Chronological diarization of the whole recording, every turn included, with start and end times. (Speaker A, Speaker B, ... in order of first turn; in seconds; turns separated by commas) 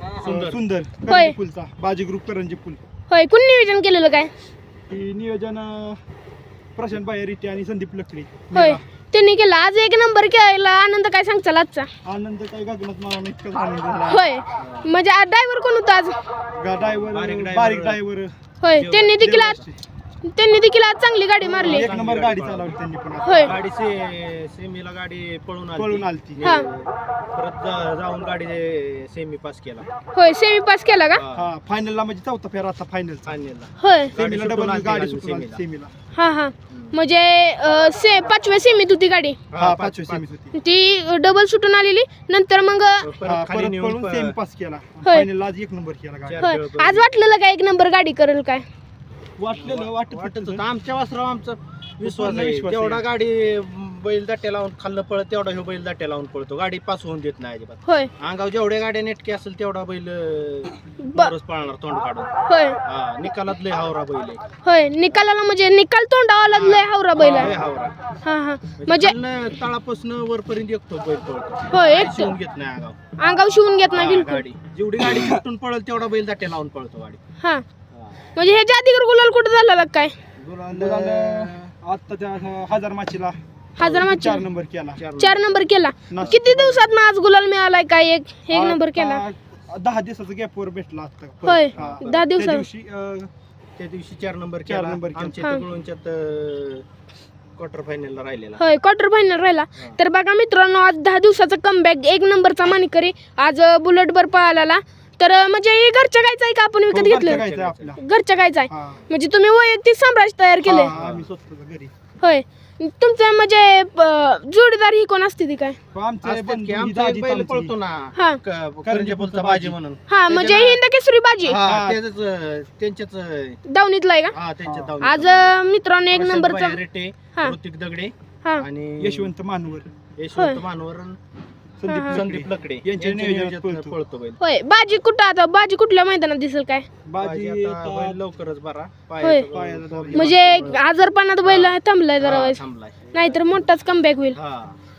Speaker A: 0.2-0.6, Speaker B: 0.2-2.8, Speaker C: 1.1-1.4, Speaker C: 3.1-4.3, Speaker B: 4.9-6.0, Speaker B: 6.7-8.8, Speaker C: 8.5-11.9, Speaker B: 12.0-14.2, Speaker C: 14.1-16.2, Speaker A: 14.6-14.9, Speaker B: 16.6-18.3, Speaker A: 16.8-18.0, Speaker C: 18.6-19.6, Speaker A: 18.7-19.7, Speaker B: 19.1-19.8, Speaker C: 20.2-21.9, Speaker A: 21.4-22.7, Speaker B: 21.6-23.6, Speaker C: 23.2-23.5, Speaker A: 23.4-29.9, Speaker B: 25.7-26.5, Speaker C: 30.1-31.2, Speaker A: 31.1-31.5, Speaker B: 31.3-33.3, Speaker A: 33.2-35.6, Speaker C: 33.8-34.1, Speaker B: 34.1-35.9, Speaker C: 36.1-39.4, Speaker A: 36.7-37.0, Speaker A: 39.5-40.2, Speaker B: 39.5-40.5, Speaker C: 40.5-43.1, Speaker A: 43.0-44.4, Speaker B: 43.2-46.4, Speaker A: 46.2-47.1, Speaker C: 46.4-48.6, Speaker B: 49.4-50.6, Speaker A: 49.5-62.3, Speaker B: 52.0-53.0, Speaker C: 57.8-58.1, Speaker C: 61.0-61.3, Speaker C: 62.5-62.8, Speaker A: 62.8-64.4, Speaker C: 64.6-67.5, Speaker A: 66.5-67.9, Speaker C: 68.2-69.2, Speaker A: 68.8-73.1, Speaker C: 71.7-72.3, Speaker C: 73.2-74.4, Speaker A: 73.9-77.2, Speaker A: 77.9-78.2, Speaker C: 78.3-80.2, Speaker A: 80.4-81.7, Speaker B: 80.7-85.0, Speaker C: 83.8-84.4, Speaker A: 84.9-86.7, Speaker C: 85.2-89.2, Speaker B: 86.1-86.9, Speaker B: 88.5-93.3, Speaker C: 91.4-92.7, Speaker A: 91.7-92.3, Speaker A: 93.8-96.8, Speaker B: 94.7-95.5, Speaker A: 97.5-98.6, Speaker C: 98.6-107.4, Speaker B: 106.9-108.0, Speaker A: 107.1-108.0, Speaker C: 108.0-110.9, Speaker B: 108.7-109.0, Speaker B: 110.6-111.9, Speaker A: 110.9-111.3, Speaker C: 112.2-115.8, Speaker B: 115.9-117.7, Speaker A: 116.2-120.8, Speaker C: 118.1-118.4, Speaker B: 118.8-119.8, Speaker C: 120.1-121.6, Speaker A: 121.4-123.6, Speaker B: 121.6-122.0, Speaker C: 123.7-124.3, Speaker A: 124.3-125.5, Speaker B: 124.6-124.9, Speaker C: 125.0-126.8, Speaker A: 126.1-129.3, Speaker B: 129.0-129.9, Speaker A: 130.2-131.2, Speaker C: 130.3-130.6, Speaker B: 131.8-134.0, Speaker C: 131.8-132.2, Speaker A: 132.1-134.4, Speaker C: 134.4-136.8, Speaker B: 137.1-138.2, Speaker A: 137.2-140.8, Speaker C: 139.2-139.5, Speaker B: 139.5-140.8, Speaker C: 140.1-142.6, Speaker A: 141.4-143.4, Speaker C: 143.1-144.4, Speaker A: 144.3-144.8